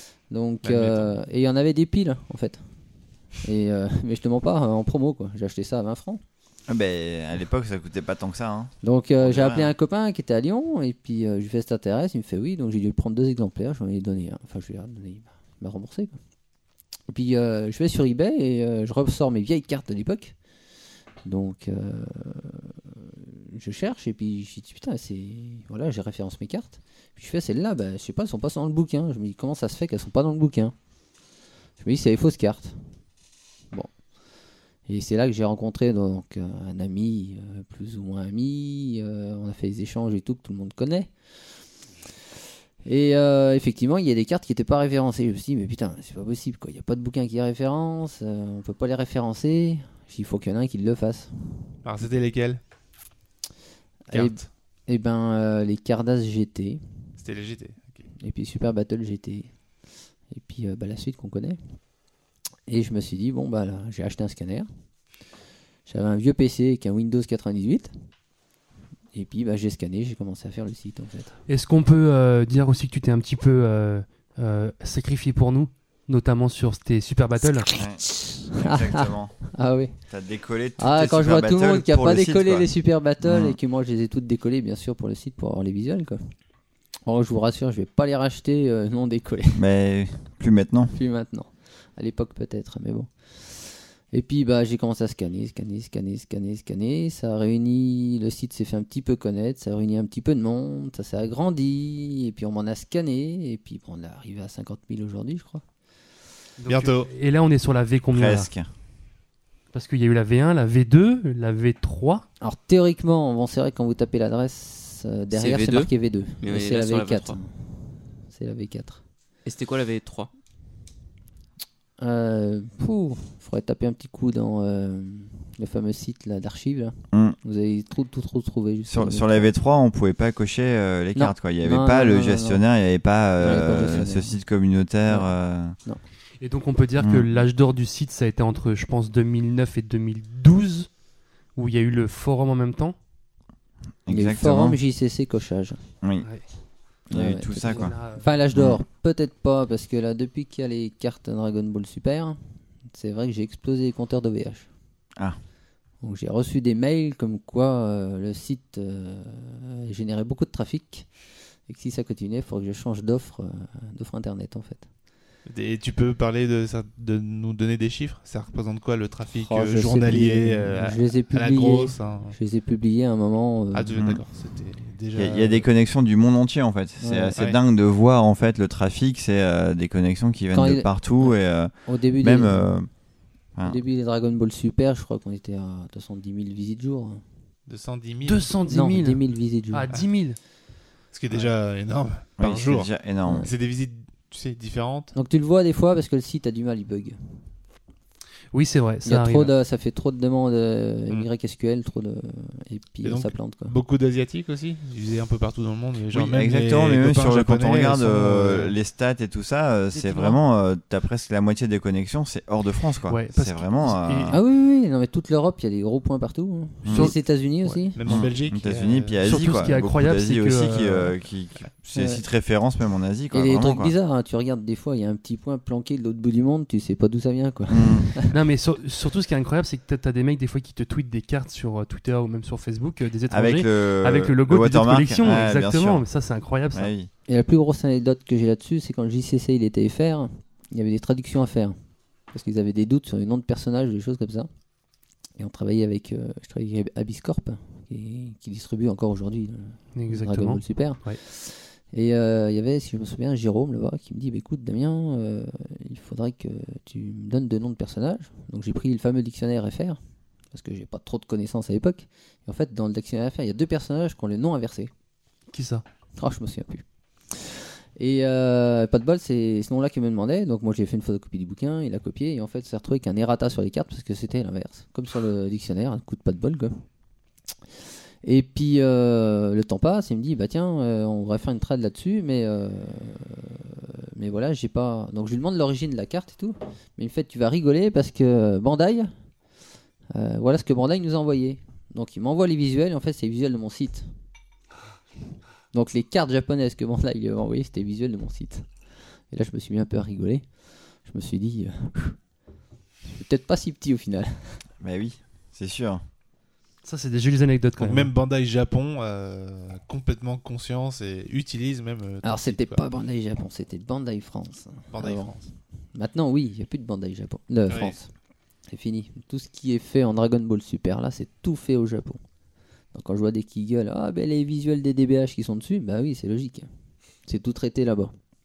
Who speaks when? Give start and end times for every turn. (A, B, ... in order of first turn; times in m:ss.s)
0:00.3-0:02.6 A
0:00.6-0:01.1 B
0:03.4-0:06.2 A
0:06.7-0:09.7 C
0:08.8-0:16.2 A
0:17.1-0:20.4 A
0:21.2-0:30.7 A
0:31.8-0:32.8 A
0:34.9-0:41.1 A
0:42.8-0:51.3 A
0:51.8-0:52.6 B
0:54.1-0:56.8 A
0:54.1-0:54.5 B
0:57.2-0:58.0 B
0:58.2-0:59.5 A
1:00.3-1:01.6 A
1:02.7-1:04.7 A
1:05.9-1:07.9 A
1:09.1-1:11.3 A
1:11.5-1:17.7 D
1:17.7-1:19.3 C
1:18.6-1:19.9 A
1:20.1-1:22.7 C
1:20.8-1:26.2 A
1:23.2-1:23.6 C
1:27.0-1:29.6 A
1:29.6-1:30.9 C
1:30.9-1:45.6 A
1:46.6-1:48.5 D
1:46.7-1:47.1 B
1:48.1-1:48.7 C
1:49.7-1:52.2 D
1:52.4-1:59.0 A
1:55.3-1:55.9 E
1:56.4-1:57.4 E
1:59.4-2:00.3 E
2:02.0-2:09.5 A
2:07.1-2:07.4 C
2:08.9-2:15.7 C
2:11.1-2:12.6 A
2:13.4-2:14.4 A
2:15.1-2:15.3 A
2:16.4-2:20.9 D
2:17.0-2:17.4 C
2:21.5-2:23.0 D
2:24.0-2:24.8 C
2:24.1-2:25.8 A
2:26.0-2:26.3 C
2:27.1-2:27.9 C
2:27.1-2:32.4 A
2:27.6-2:28.3 D
2:28.5-2:28.8 C
2:32.9-2:34.7 A
2:36.0-2:41.1 A
2:41.7-2:44.9 A
2:45.5-2:52.4 B
2:49.3-2:53.9 A
2:53.7-2:55.6 B
2:54.0-2:54.2 C
2:55.1-3:02.9 C
2:57.0-2:57.4 A
3:00.5-3:02.6 A
3:03.6-3:07.2 A
3:07.7-3:08.5 B
3:08.2-3:09.2 D
3:08.7-3:09.9 A
3:09.7-3:10.4 D
3:11.1-3:15.1 B
3:12.4-3:13.5 C
3:15.1-3:17.2 A
3:18.5-3:19.5 D
3:19.0-3:23.7 A
3:23.0-3:28.7 B
3:26.1-3:34.4 C
3:29.9-3:30.4 D
3:33.1-3:34.4 D
3:34.3-3:38.0 A
3:36.8-3:37.1 C
3:37.9-3:39.2 B
3:38.0-3:43.9 C
3:39.2-3:41.1 D
3:41.9-3:42.2 A
3:43.3-3:48.3 A
3:47.7-3:48.1 C
3:48.3-3:56.9 D
3:53.3-3:56.0 C
3:56.7-3:57.1 C
3:57.3-4:01.8 A
4:02.3-4:04.5 A
4:05.4-4:20.0 A
4:09.9-4:11.2 D
4:20.5-4:24.9 A
4:25.5-4:25.8 D
4:26.2-4:36.8 A
4:38.2-4:49.1 A
4:50.1-4:54.1 A
4:55.7-4:58.7 A
4:59.3-5:00.4 A
5:01.0-5:02.2 A
5:03.0-5:04.6 A
5:04.8-5:06.0 C
5:06.8-5:08.1 D
5:07.8-5:12.8 B
5:12.2-5:15.4 A
5:14.9-5:15.5 B
5:15.9-5:18.1 A
5:17.7-5:17.9 B
5:18.7-5:22.2 A
5:22.9-5:26.7 A
5:27.3-5:28.1 A